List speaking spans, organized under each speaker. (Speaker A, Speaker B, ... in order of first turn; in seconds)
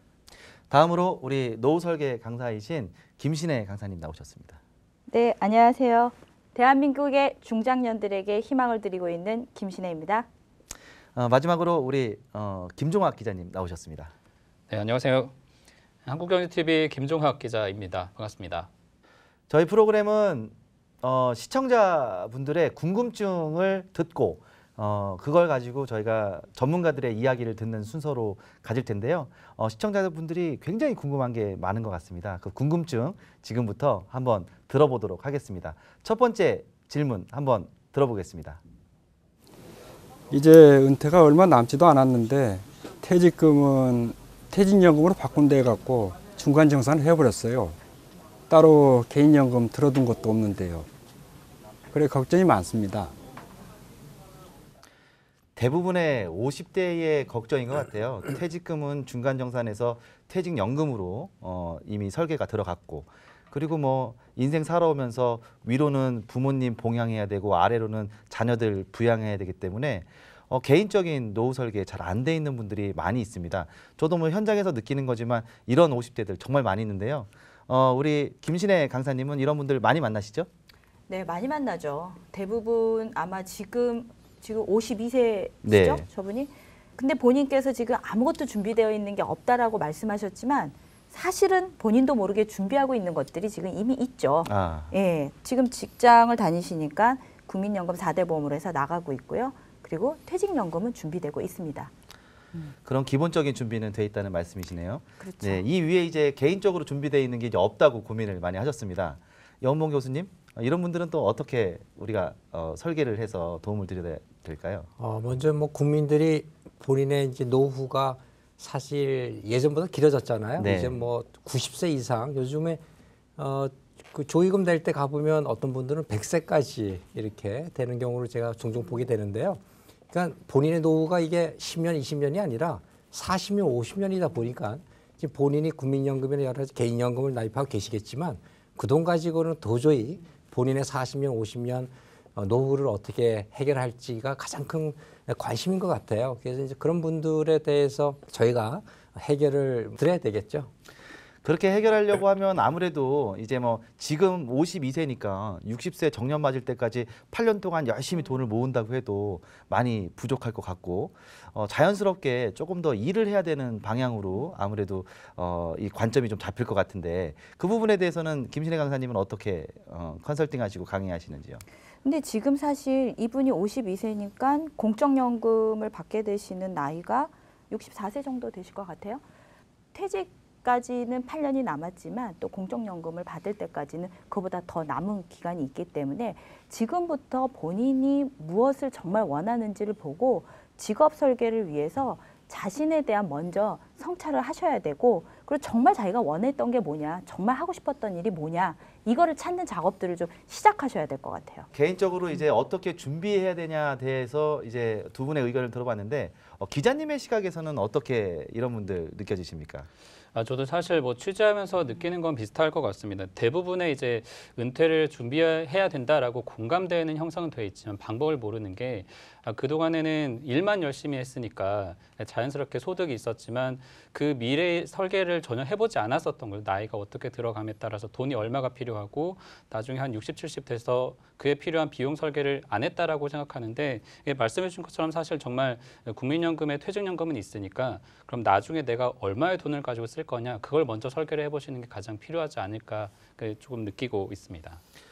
Speaker A: 0.7-4.6, 11.1-14.1, 19.5-38.6, 55.5-80.5, 85.6-86.0, 94.5-94.9, 102.8-114.9, 120.6-121.0, 151.4-171.6, 201.7-209.9
Speaker B: 5.1-10.3, 81.1-101.9, 105.2-105.7, 172.0-179.2, 179.9-201.7
Speaker C: 14.7-15.3, 16.1-18.7, 210.3-244.8
Speaker D: 40.3-47.8, 48.5-50.9, 51.9-53.1
Speaker E: 115.0-122.8, 123.4-150.7